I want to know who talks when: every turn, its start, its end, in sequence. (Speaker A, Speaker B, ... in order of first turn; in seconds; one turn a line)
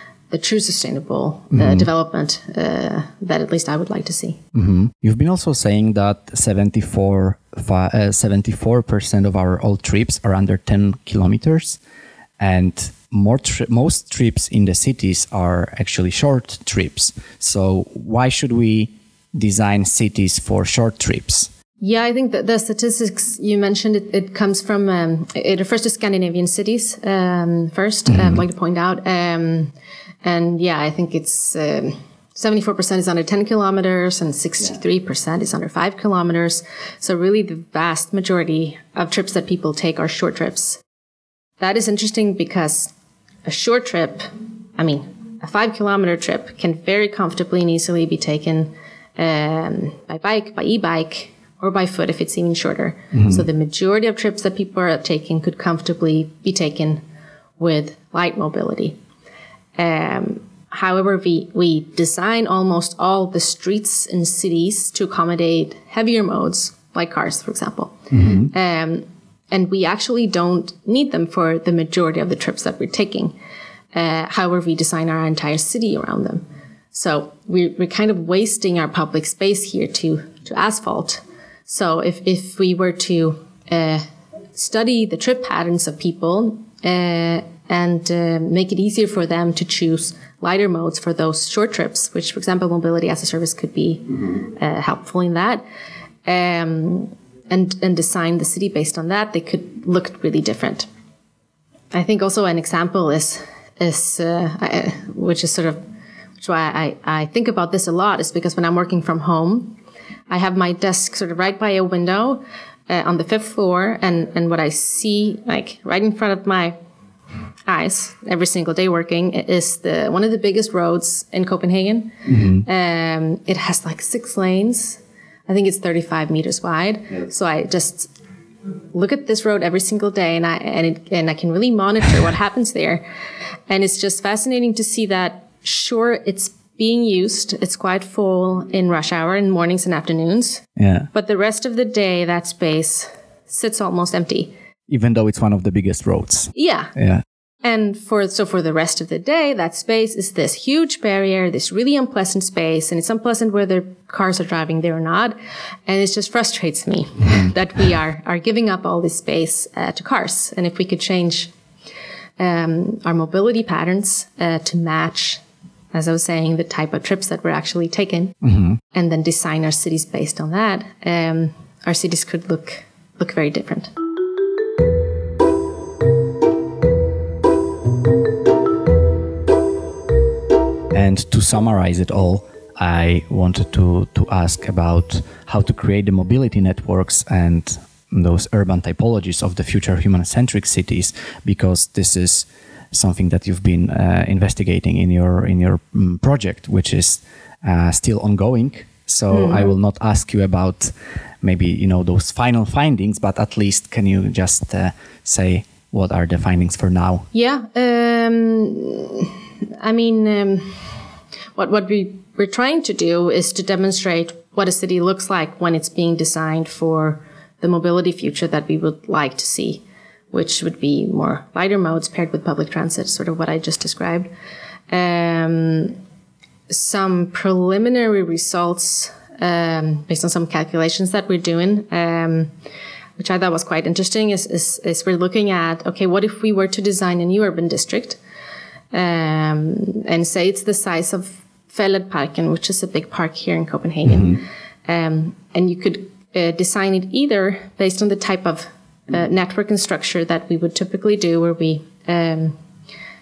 Speaker A: 0.3-4.4
Speaker B: 1.5-1.9
Speaker B: 4.5-11.8
Speaker B: 12.4-21.5
Speaker A: 21.8-29.7
Speaker B: 28.1-28.4
Speaker A: 30.2-40.8
Speaker A: 41.6-42.9
Speaker A: 43.5-57.0
Speaker B: 53.1-53.5
Speaker A: 57.6-59.0
Speaker A: 59.8-73.4
Speaker B: 68.1-68.5
Speaker A: 73.9-95.6
Speaker A: 96.2-100.9
Speaker A: 101.9-105.8
Speaker A: 106.4-109.8
Speaker A: 110.3-116.8
Speaker A: 117.7-128.1
Speaker B: 122.3-122.7
Speaker A: 128.9-133.0
Speaker A: 133.7-144.5
Speaker B: 140.8-141.1
Speaker B: 144.9-147.2
Speaker A: 146.6-146.9
Speaker A: 147.6-155.4
Speaker A: 155.9-161.5
Speaker B: 157.2-157.5
Speaker A: 162.4-165.4
Speaker A: 165.9-168.3
Speaker B: 168.4-168.8
Speaker A: 168.9-173.9
Speaker B: 180.9-207.3
Speaker A: 199.3-199.7
Speaker A: 207.3-210.9
Speaker A: 211.6-224.3
Speaker A: 224.9-226.0
Speaker A: 226.7-232.5
Speaker A: 233.2-238.2
Speaker A: 238.9-252.6
Speaker B: 244.1-244.4